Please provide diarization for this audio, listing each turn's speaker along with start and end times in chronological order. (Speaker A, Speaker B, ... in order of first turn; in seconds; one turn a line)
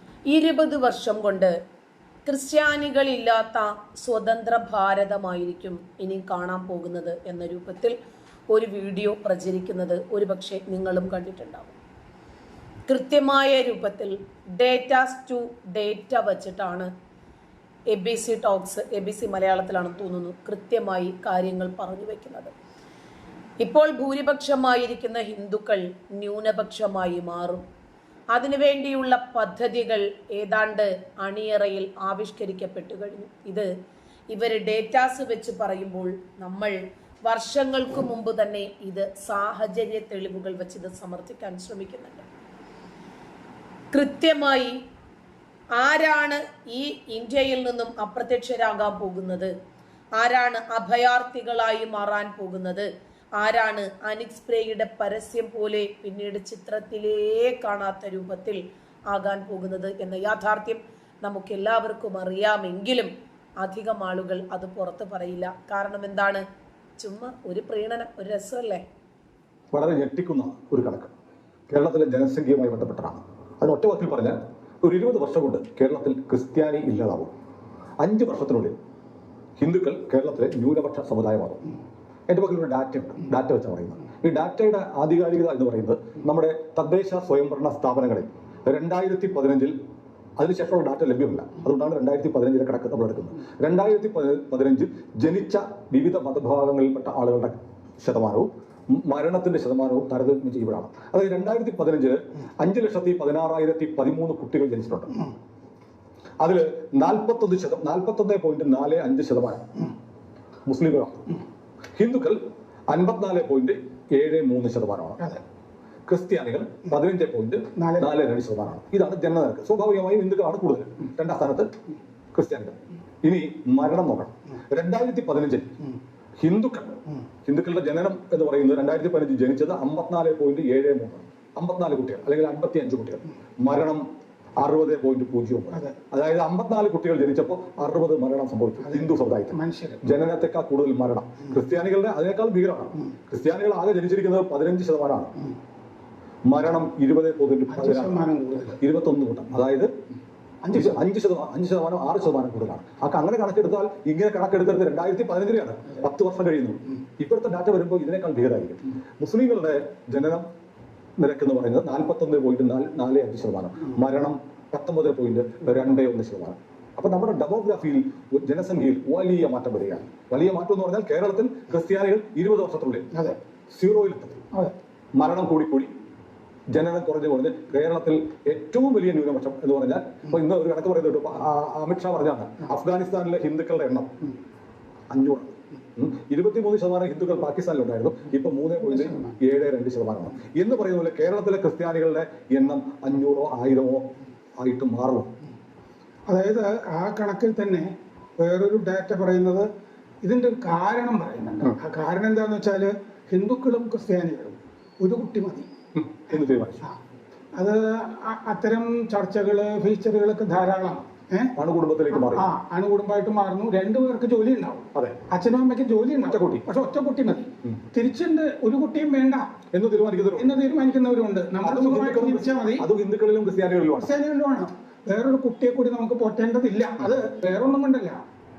Speaker A: 0.3-1.5
Speaker A: 2.2-8.0
Speaker A: 8.5-11.8
Speaker A: 12.9-16.9
Speaker A: 17.9-22.5
Speaker A: 23.6-27.6
Speaker A: 28.3-33.7
Speaker A: 34.3-42.2
Speaker A: 43.9-44.8
Speaker A: 45.8-49.5
Speaker A: 50.2-66.4
Speaker A: 67.0-68.8
Speaker B: 69.7-71.1
Speaker B: 71.7-77.3
Speaker B: 78.0-78.8
Speaker B: 79.6-81.7
Speaker B: 82.3-89.8
Speaker B: 90.4-105.1
Speaker B: 106.4-109.6
Speaker B: 110.7-111.3
Speaker B: 112.0-115.2
Speaker B: 116.1-121.7
Speaker C: 117.8-118.1
Speaker B: 122.3-125.8
Speaker B: 126.4-134.0
Speaker B: 134.6-145.3
Speaker C: 138.9-140.1
Speaker B: 146.5-148.2
Speaker C: 147.7-148.8
Speaker B: 148.8-149.9
Speaker C: 150.6-150.9
Speaker B: 150.7-160.5
Speaker B: 161.2-173.1
Speaker B: 173.7-174.4
Speaker B: 175.1-175.9
Speaker B: 176.7-184.1
Speaker B: 185.1-195.3
Speaker C: 196.3-199.7
Speaker C: 200.2-205.7
Speaker B: 205.9-206.8
Speaker C: 207.5-211.5
Speaker B: 211.6-212.4
Speaker C: 212.1-219.4
Speaker B: 214.9-215.2
Speaker B: 216.2-216.6
Speaker B: 219.7-220.5
Speaker C: 220.3-222.9
Speaker B: 221.6-224.1
Speaker C: 224.0-228.2